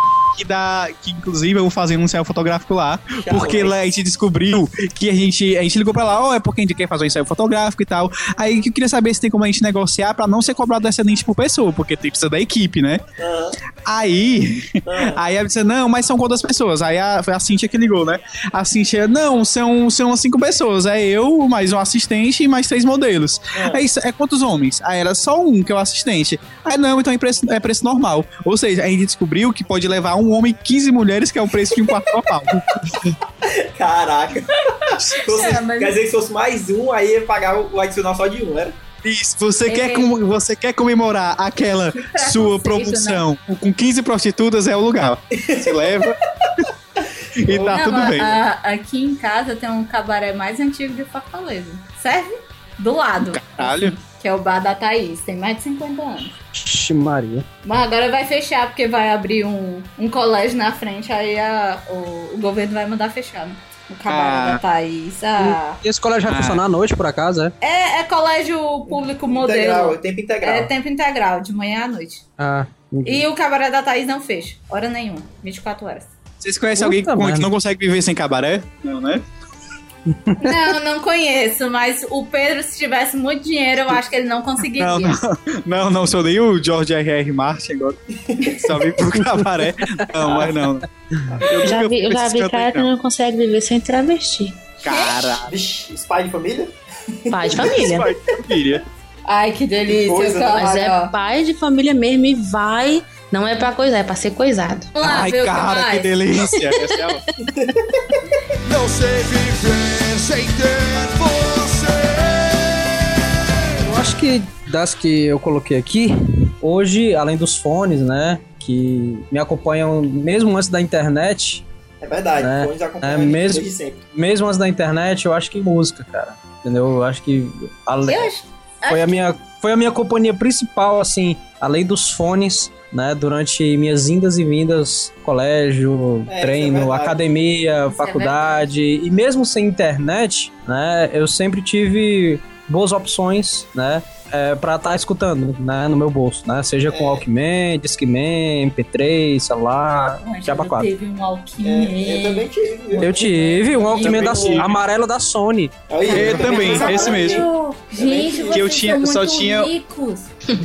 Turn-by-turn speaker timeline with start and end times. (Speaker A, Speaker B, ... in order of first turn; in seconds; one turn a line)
Speaker A: 0.2-13.0
Speaker B: 3.2-3.8
Speaker B: 13.2-13.6
Speaker A: 13.8-33.1
Speaker B: 14.8-15.2
Speaker B: 23.5-23.8
Speaker B: 33.4-38.8
Speaker A: 35.0-35.3
Speaker C: 35.1-36.0
Speaker A: 39.0-46.7
Speaker C: 39.7-40.1
Speaker C: 42.0-43.2
Speaker B: 45.3-46.0
Speaker A: 47.4-48.4
Speaker B: 47.4-47.8
Speaker C: 47.7-56.4
Speaker A: 53.2-54.0
Speaker D: 56.5-57.5
Speaker C: 57.6-65.8
Speaker A: 64.1-64.6
Speaker D: 65.4-67.5
Speaker A: 66.3-66.6
Speaker C: 67.6-72.2
Speaker B: 69.3-70.7
Speaker D: 72.4-73.2
Speaker C: 73.0-76.1
Speaker A: 76.4-79.2
Speaker D: 76.7-77.5
Speaker C: 80.4-85.2
Speaker A: 84.8-90.8
Speaker B: 88.2-88.8
Speaker A: 91.4-92.9
Speaker E: 91.6-94.7
Speaker A: 94.8-95.5
Speaker C: 94.8-95.2
Speaker B: 95.4-97.9
Speaker E: 97.3-98.1
Speaker A: 97.7-98.8
Speaker C: 99.2-101.1
Speaker B: 99.9-100.8
Speaker E: 100.5-104.9
Speaker C: 104.9-106.1
Speaker A: 105.0-107.2
Speaker E: 106.6-107.0
Speaker B: 107.5-108.1
Speaker F: 108.6-113.0
Speaker D: 113.8-121.6
Speaker B: 122.0-124.0
Speaker D: 122.4-128.3
Speaker C: 128.1-129.3
Speaker D: 128.9-150.9
Speaker B: 136.3-137.2
Speaker C: 137.9-138.7
Speaker B: 146.9-147.2
Speaker C: 150.1-152.5
Speaker B: 151.6-154.6
Speaker D: 153.0-155.8
Speaker C: 153.7-154.6
Speaker A: 154.0-154.7
Speaker B: 155.9-158.7
Speaker C: 156.0-160.3
Speaker A: 156.1-157.5
Speaker A: 158.5-159.7